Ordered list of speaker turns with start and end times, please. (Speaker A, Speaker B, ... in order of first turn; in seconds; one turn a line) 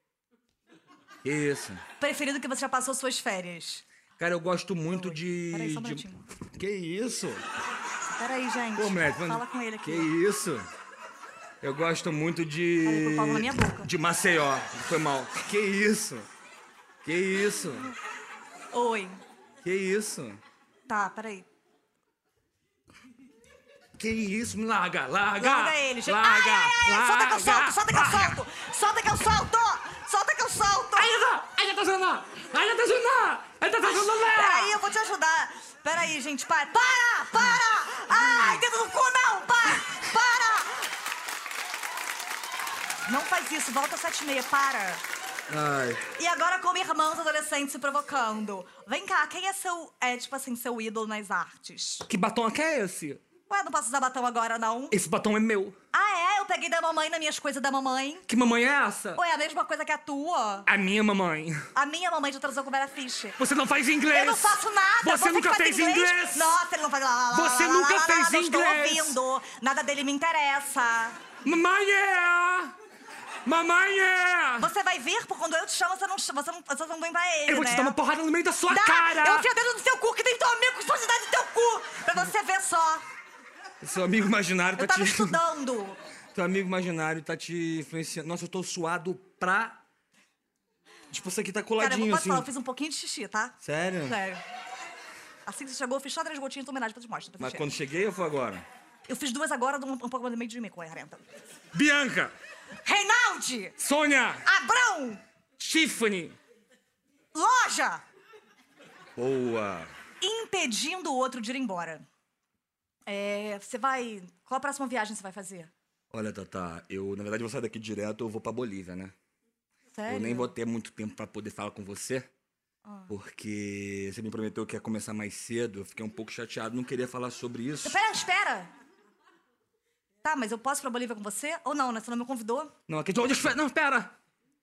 Speaker A: 1.2-1.8
Speaker B: 2.0-3.9
Speaker A: 4.2-7.4
Speaker B: 4.9-6.3
Speaker B: 8.2-10.1
Speaker A: 8.8-10.7
Speaker A: 11.6-16.3
Speaker B: 12.8-13.9
Speaker A: 17.0-17.9
Speaker B: 18.7-19.2
Speaker A: 19.6-20.4
Speaker B: 20.9-21.5
Speaker A: 24.0-28.4
Speaker B: 25.4-31.2
Speaker A: 30.9-34.8
Speaker B: 34.1-40.9
Speaker A: 38.2-38.6
Speaker B: 43.1-45.0
Speaker A: 45.5-46.0
Speaker B: 46.2-52.1
Speaker A: 52.1-53.2
Speaker B: 53.5-55.0
Speaker A: 54.9-55.8
Speaker B: 55.9-58.3
Speaker A: 58.3-59.2
Speaker B: 59.2-60.7
Speaker A: 60.7-61.6
Speaker B: 61.8-63.4
Speaker A: 63.4-66.6
Speaker B: 64.1-71.2
Speaker A: 67.3-69.2
Speaker A: 71.4-72.7
Speaker A: 73.5-74.7
Speaker B: 74.6-78.0
Speaker A: 77.5-79.5
Speaker B: 78.7-83.0
Speaker A: 83.8-85.4
Speaker B: 84.8-86.0
Speaker A: 86.3-89.8
Speaker A: 91.1-92.5
Speaker B: 91.8-94.4
Speaker A: 93.6-94.2
Speaker B: 95.5-97.7
Speaker A: 97.4-98.7
Speaker B: 99.1-101.2
Speaker A: 101.7-102.3
Speaker B: 102.8-103.8
Speaker A: 103.8-104.5
Speaker B: 104.4-105.2
Speaker A: 105.6-106.4
Speaker B: 107.3-108.0
Speaker A: 109.2-109.9
Speaker B: 110.2-112.0
Speaker B: 113.1-115.7
Speaker A: 116.1-119.1
Speaker B: 119.9-120.5
Speaker A: 120.1-122.3
Speaker B: 122.8-123.1
Speaker A: 123.1-128.0
Speaker B: 127.8-128.7
Speaker B: 130.2-132.7
Speaker A: 132.9-134.2